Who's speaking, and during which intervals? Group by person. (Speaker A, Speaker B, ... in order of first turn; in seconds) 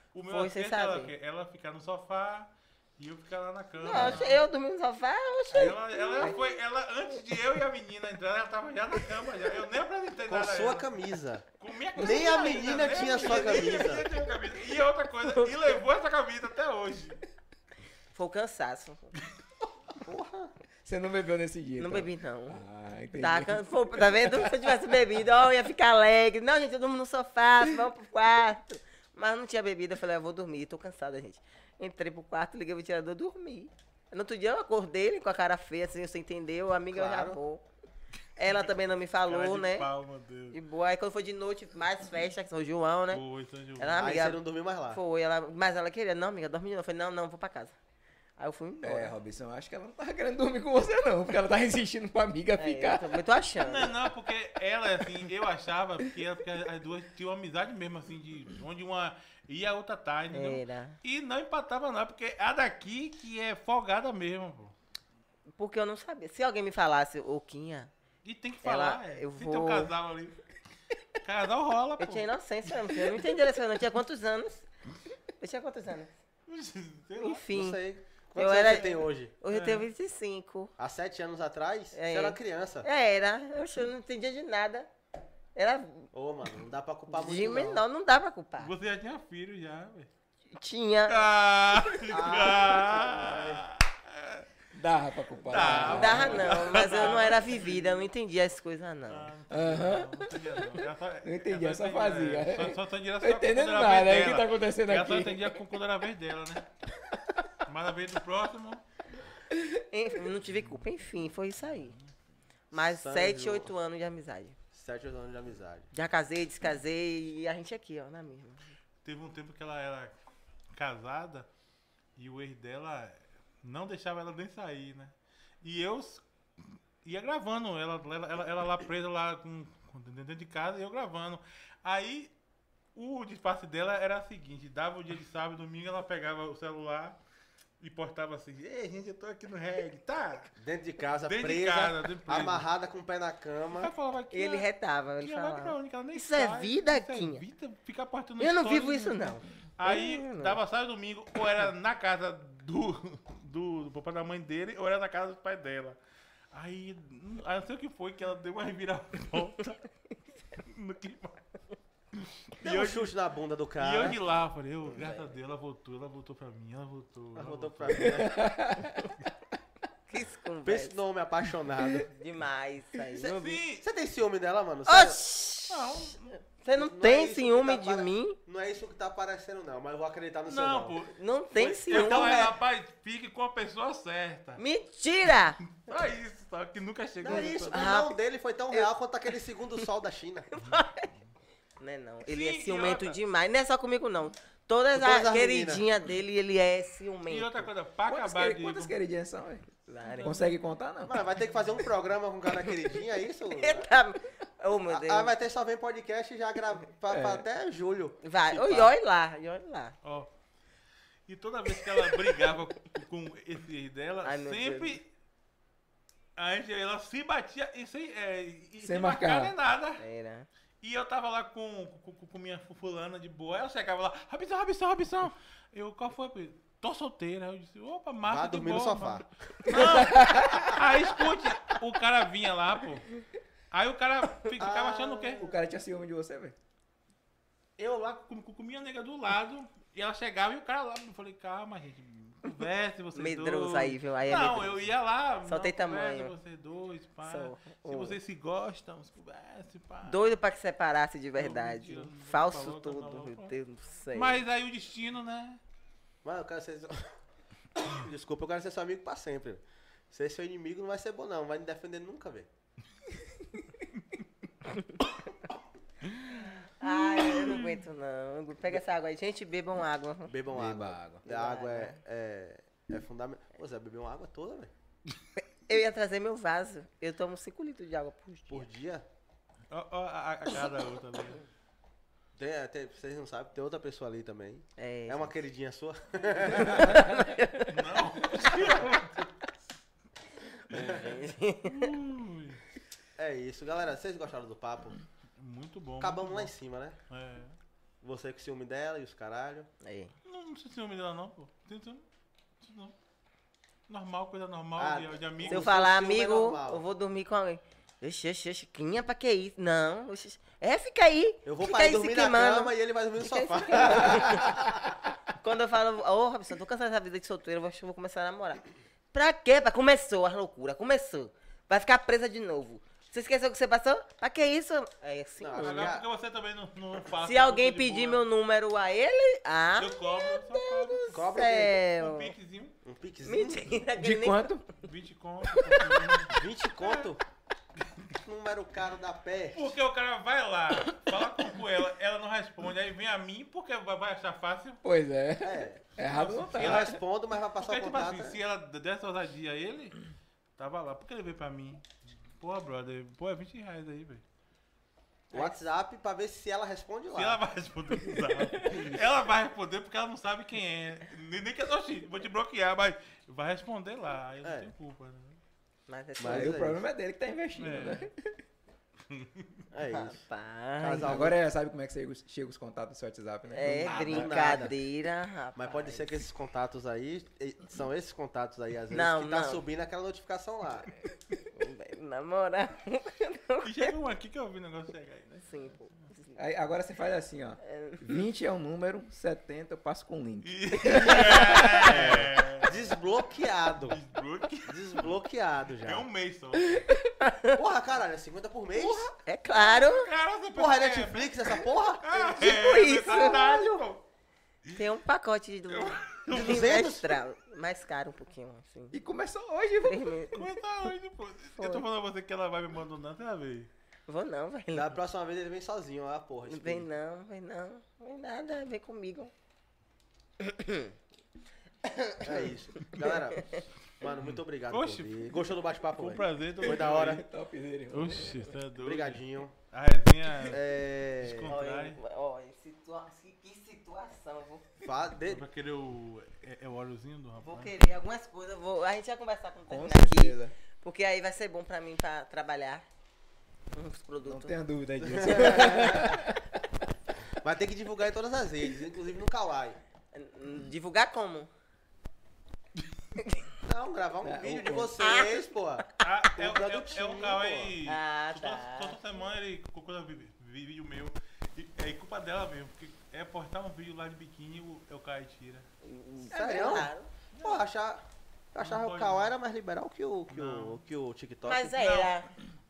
Speaker A: 0.1-4.4, 5.5-10.9, 11.6-17.2, 39.3-40.6, 43.1-44.1, 53.6-64.8, 68.2-70.4, 71.2-73.3, 76.5-77.5, 79.5-79.9, 88.6-90.1, 91.1-94.5, 95.4-98.1, 99.1-106.7, 107.7-108.8, 119.0-120.2, 120.7-121.5, 122.2-126.2, 127.0-132.3, 132.9-137.2, 137.8-140.5, 141.3-142.7, 143.8-144.7, 145.2-156.0, 156.5-159.8, 160.6-161.4, 162.2-163.1, 163.8-168.2, 173.2-173.8, 175.7-176.4, 180.5-184.6, 185.7-187.9, 192.3-193.2, 197.3-198.9, 200.1-200.5, 210.0-210.3, 211.3-215.1, 216.4-220.0, 220.8-233.1, 233.7-235.5, 237.8-250.3, 251.4-253.5, 254.1-255.6, 267.3-267.7, 279.7-281.4, 287.7-289.3, 290.7-291.0, 291.6-292.6, 295.4-296.5, 297.1-297.6, 300.2-302.1, 302.6-302.9, 303.9-305.7, 325.6-328.2, 329.8-331.2, 332.0-332.8, 334.8-337.1, 337.8-338.2, 339.5-344.8, 346.0-347.0, 347.6-350.0, 350.6-354.2, 357.1-365.4, 367.6-368.1, 369.1-369.5, 383.6-385.5, 390.4-392.8, 393.9-395.1, 395.8-396.8, 399.5-404.0, 405.7-406.9, 410.4-413.7, 424.0-427.2, 427.9-430.6, 431.2-432.0, 435.2-437.7, 456.0-465.7, 467.4-467.6, 468.6-469.3, 470.3-470.8, 471.7-472.1
Speaker B: 0.3-1.1, 3.8-6.4, 13.2-13.6, 15.2-15.5, 18.1-19.1, 21.8-22.6, 23.2-37.6, 38.4-39.9, 40.5-43.2, 43.8-47.8, 48.4-49.1, 52.6-53.9, 60.3-61.0, 65.6-67.9, 68.6-69.9, 72.0-74.7, 75.4-76.2, 77.2-77.8, 78.3-80.7, 81.9-84.9, 85.5-86.1, 87.1-88.7, 90.5-91.3, 95.8-99.3, 109.9-112.0, 112.7-114.6, 115.9-118.8, 144.3-147.4, 148.4-150.6, 164.9-165.3, 170.1-171.0, 172.1-173.6, 174.9-178.4, 181.2-182.5, 184.6-185.6, 187.6-188.1, 190.5-191.1, 191.8-197.7, 199.9-200.4, 203.5-205.3, 208.2-210.0, 214.2-215.0, 220.0-220.5, 243.2-244.9, 245.4-246.3, 247.2-248.2, 250.0-254.4, 266.6-270.3, 271.2-272.0, 275.4-278.7, 284.8-285.3, 286.6-287.8, 290.7-291.9, 299.8-300.1, 305.5-314.6, 315.4-325.9, 327.2-332.3, 333.2-334.6, 355.3-355.6, 365.9-366.7, 369.9-371.3, 373.5-376.2, 378.9-379.6, 381.5-383.9, 385.4-386.4, 387.6-388.1, 390.8-391.8, 397.2-397.6, 399.2-400.1, 402.4-403.8, 404.7-409.0, 409.8-410.5, 411.6-411.9, 414.1-415.0, 416.5-419.3, 420.4-420.9, 421.9-423.6, 431.5-434.7, 437.4-442.9, 443.7-444.6, 445.2-446.2, 450.1-451.5, 455.0-455.4, 457.9-459.0, 465.8-467.1, 471.4-472.3
Speaker C: 3.9-4.2, 5.6-6.4, 20.8-24.7, 48.8-53.2, 94.7-96.7, 99.5-105.6, 168.0-169.1, 198.1-201.3, 207.1-207.4, 218.8-219.5, 229.7-230.8, 235.4-236.6, 270.5-271.2, 334.0-334.6, 335.7-336.1, 344.8-347.0, 358.1-359.0, 366.3-368.3, 371.0-374.7, 386.4-392.0, 398.8-399.1, 408.9-410.3, 426.7-428.5, 439.7-440.6, 444.2-446.5, 454.2-455.0, 466.3-466.9
Speaker D: 10.3-11.4, 12.0-14.1, 20.0-20.5, 36.9-37.4, 44.0-45.0, 77.5-79.3, 80.8-82.9, 86.1-87.8, 92.1-93.7, 112.7-113.7, 114.7-115.9, 140.6-143.9, 162.6-164.2, 167.3-168.5, 170.7-172.1, 173.8-175.2, 176.7-181.0, 181.9-182.3, 187.2-190.5, 194.9-195.8, 201.1-203.9, 204.9-208.9, 228.2-229.3, 234.6-235.6, 256.2-257.1, 257.8-262.5, 270.3-274.7, 278.5-279.1, 282.4-287.1, 290.7-291.1, 293.2-295.0, 296.0-297.0, 298.0-299.7, 304.8-306.8, 311.4-315.0, 325.4-326.1, 331.1-331.8, 332.8-333.8, 336.3-337.2, 338.2-339.8, 345.4-345.8, 346.6-348.4, 355.3-357.4, 364.4-364.7, 366.2-366.8, 369.7-370.2, 370.8-371.4, 373.8-374.8, 375.6-380.9, 391.8-394.0, 394.7-396.1, 397.6-399.1, 400.5-402.1, 406.3-407.2, 414.7-416.9, 422.2-423.5, 424.0-427.2, 428.8-429.5, 430.4-431.5, 434.8-435.4, 445.1-446.2, 447.4-449.8, 453.6-457.8, 466.3-471.7